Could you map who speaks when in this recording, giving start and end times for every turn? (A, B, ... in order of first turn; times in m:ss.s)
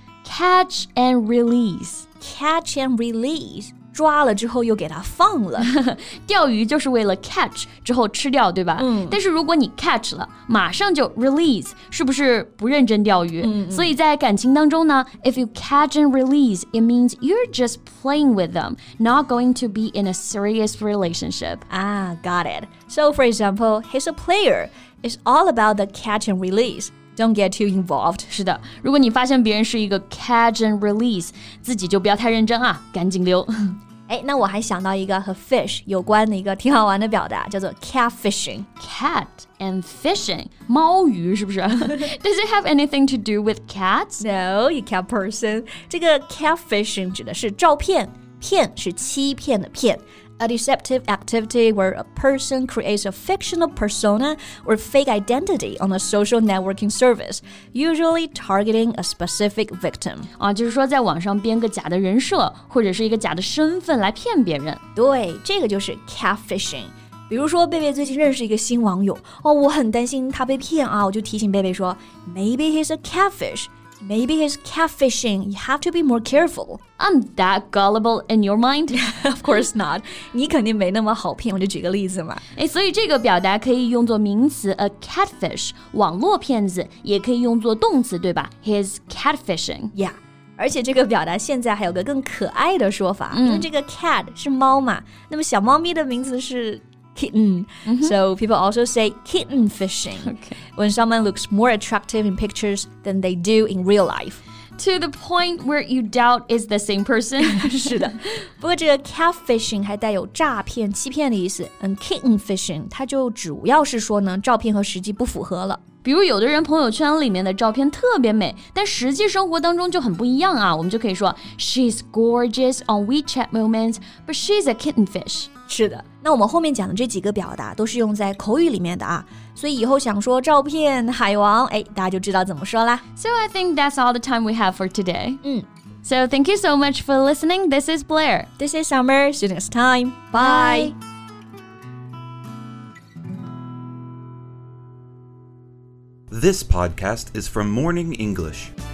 0:00.2-0:02.1 A
0:02.2-0:05.7 B
0:05.6-0:21.6 A
0:08.8-0:09.2 B
0:13.4-0:13.9 B
0:21.7-0:28.3 B
0:28.3-0:33.7 A
0:34.1-0:38.7 B
0:38.8-0:44.2 A
0:44.2-1:00.3 B
1:00.4-1:04.8 A
1:05.0-1:16.8 B
1:17.0-1:19.0 A
1:18.9-1:22.4 B
1:22.6-1:29.9 A
1:29.9-1:44.4 B
1:33.3-1:33.7 A
1:37.8-1:38.2 A
1:40.2-1:40.6 A
1:44.8-1:48.0 A
1:47.4-1:55.8 B
1:56.0-2:05.5 A
2:05.7-2:13.0 B
2:13.2-2:15.4 A
2:16.0-2:18.5 A
2:18.6-2:21.0 B
2:20.3-2:21.0 A
2:26.3-2:28.7 C